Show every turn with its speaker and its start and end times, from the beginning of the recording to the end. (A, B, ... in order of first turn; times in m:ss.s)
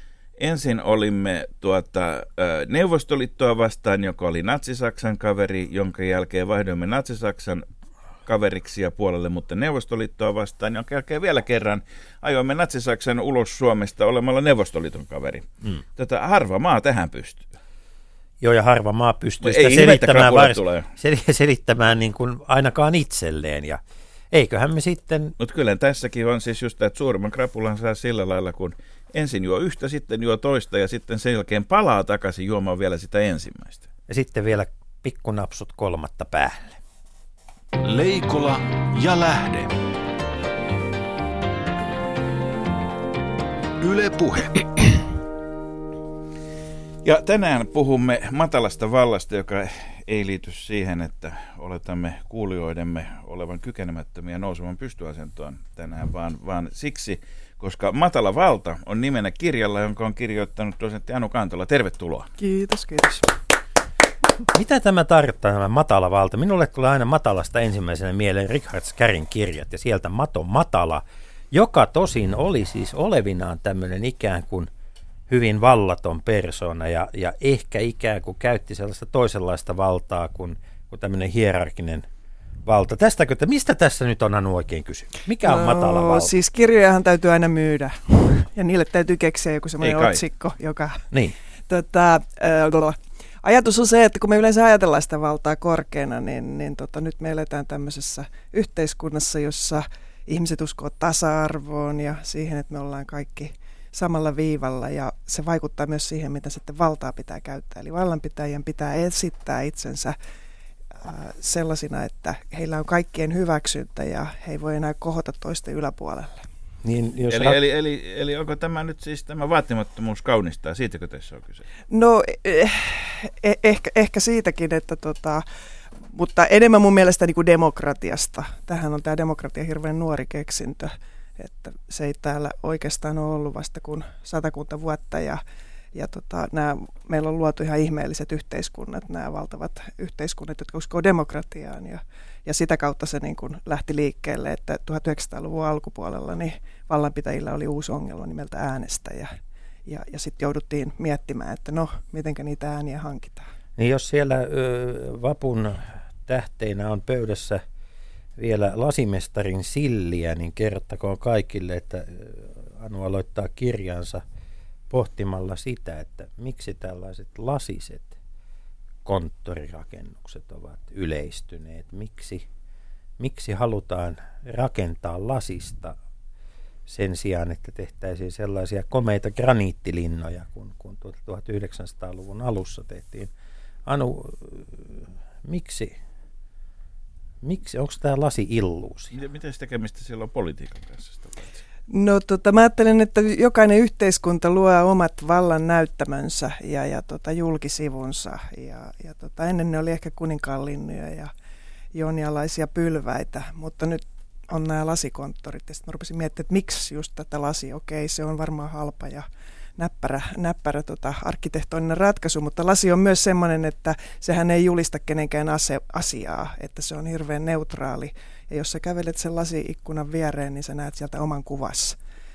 0:00.4-0:07.6 A
0:08.3-0:17.5 A
0:18.4-0:25.4 B
0:19.4-0:20.9 A
0:25.4-0:33.9 A
0:34.1-0:36.8 B
0:37.8-0:39.8 C
0:43.8-0:45.1 C
0:47.0-1:02.3 A
1:02.4-1:03.3 D
1:04.5-1:14.7 B
1:15.3-1:22.1 B
1:22.6-1:26.3 B
1:25.4-1:31.0 D
1:29.8-1:30.2 A
1:31.7-1:50.2 D
1:51.0-1:56.5 D
1:56.8-1:57.6 B
1:57.3-2:01.6 A
2:01.9-2:05.4 D
2:06.0-2:15.4 D
2:15.9-2:29.3 D
2:29.9-2:33.5 D
2:33.8-2:37.6 B
2:38.4-2:44.2 B
2:44.9-2:48.2 B
2:49.0-2:52.5 B
2:53.2-2:56.0 B
2:56.9-3:03.3 B
3:03.9-3:06.0 B
3:07.4-3:09.1 B
3:09.1-3:11.6 A
3:11.9-3:21.3 D
3:21.9-3:42.0 D